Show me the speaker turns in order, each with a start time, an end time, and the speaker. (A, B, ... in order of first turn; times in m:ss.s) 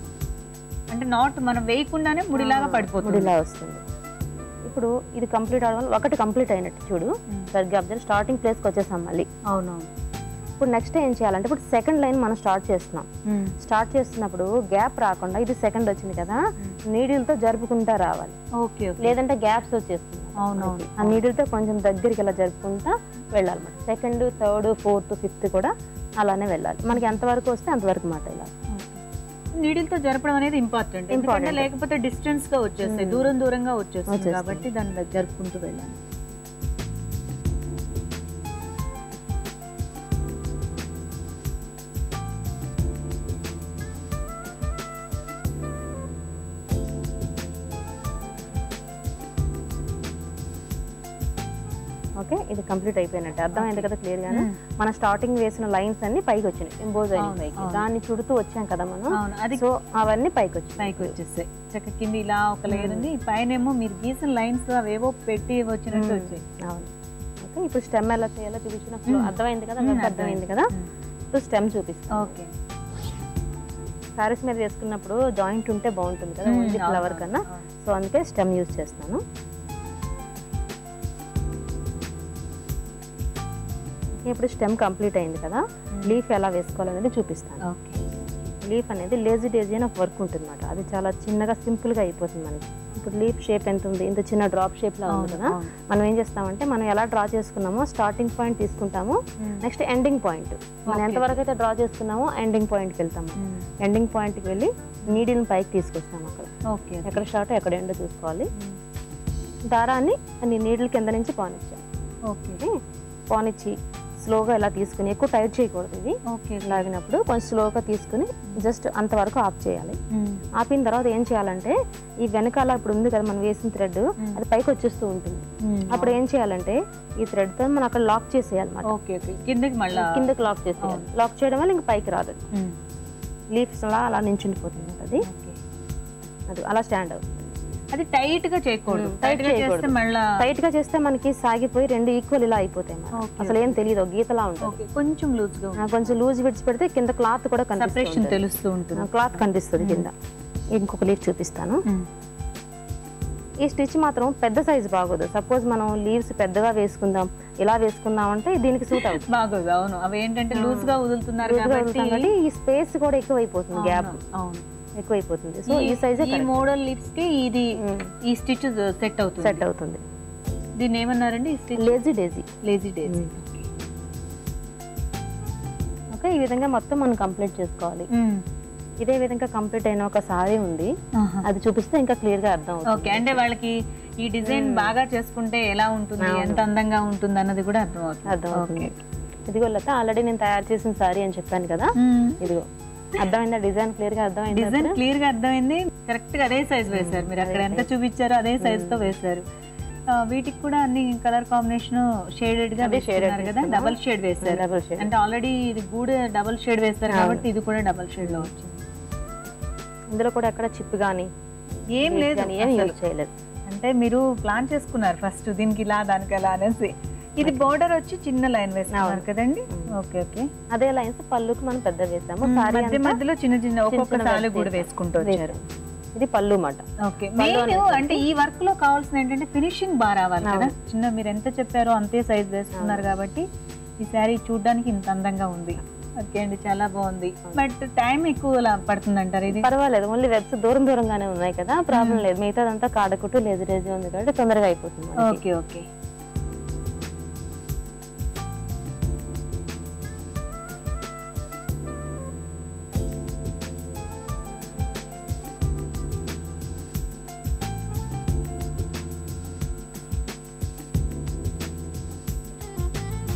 0:00.9-0:03.3 A
0:02.4-0:03.8 B
0:04.7-0:09.3 B
0:09.5-0:09.9 A
0:10.6-0:13.1 B
0:13.3-0:13.5 A
0:13.6-0:18.4 B
0:18.6-0:19.2 A
0:19.0-0:28.5 B
0:20.4-0:21.2 A
0:26.9-0:27.2 A
0:28.7-0:29.0 A
0:29.6-0:36.0 A
0:31.1-0:31.7 B
0:32.8-0:33.3 B
0:34.1-0:34.7 B
0:52.2-1:01.2 B
0:53.6-0:54.6 A
0:57.2-0:57.9 A
0:59.1-0:59.6 A
1:00.8-1:06.4 A
1:02.7-1:03.1 B
1:05.9-1:06.9 B
1:07.4-1:10.7 B
1:09.1-1:10.8 A
1:11.3-1:12.4 B
1:12.1-1:12.5 A
1:14.2-1:19.2 B
1:16.5-1:17.6 A
1:24.2-1:27.6 B
1:27.7-1:28.0 A
1:28.7-1:46.5 B
1:35.1-1:35.7 A
1:40.9-1:41.4 A
1:43.4-1:43.6 A
1:46.7-1:47.2 A
1:47.1-1:48.5 B
1:49.7-1:51.8 B
1:52.3-1:52.6 A
1:53.3-2:00.0 B
1:56.3-1:56.9 A
2:00.1-2:00.4 A
2:00.6-2:08.9 B
2:05.6-2:06.2 A
2:08.9-2:11.1 A
2:09.9-2:12.4 B
2:13.6-2:15.3 B
2:15.2-2:15.6 A
2:16.5-2:17.5 B
2:17.9-2:20.2 A
2:18.9-2:24.8 B
2:23.2-2:23.9 A
2:24.6-2:26.1 A
2:25.8-2:28.4 B
2:27.8-2:30.1 A
2:29.0-2:30.1 B
2:30.8-2:31.8 B
2:33.6-2:39.2 B
2:38.9-2:42.3 A
2:40.5-2:44.2 B
2:43.7-2:44.6 A
2:45.0-2:46.7 B
2:45.7-2:47.7 A
2:47.8-2:48.1 B
2:48.3-2:49.6 A
2:49.4-2:50.0 B
2:50.8-2:52.0 A
2:51.8-2:52.5 B
2:52.6-2:53.7 A
2:53.1-2:53.3 B
2:56.2-2:58.1 B
2:58.1-2:58.4 A
2:59.0-3:00.9 B
3:01.2-3:01.4 A
3:01.4-3:03.4 B
3:02.9-3:08.9 A
3:04.4-3:05.0 B
3:06.2-3:06.6 B
3:08.3-3:15.0 B
3:12.0-3:12.4 A
3:14.5-3:19.4 A
3:16.9-3:17.9 B
3:18.6-3:19.1 B
3:20.1-3:28.8 A
3:22.8-3:25.1 B
3:27.1-3:27.5 B
3:28.2-3:28.5 B
3:30.1-3:31.3 B
3:31.9-3:33.0 A
3:32.0-3:33.3 B
3:33.7-3:40.5 A
3:37.4-3:37.7 B
3:38.9-3:40.0 B
3:40.7-3:43.2 B
3:42.4-3:45.5 A
3:43.9-3:45.6 B
3:46.2-3:46.8 B
3:47.1-3:53.4 A
3:47.4-3:48.3 B
3:50.4-3:50.7 B
3:52.7-3:53.2 B
3:54.0-3:59.7 A
3:59.5-4:05.4 B
4:01.9-4:02.2 A
4:05.2-4:05.8 A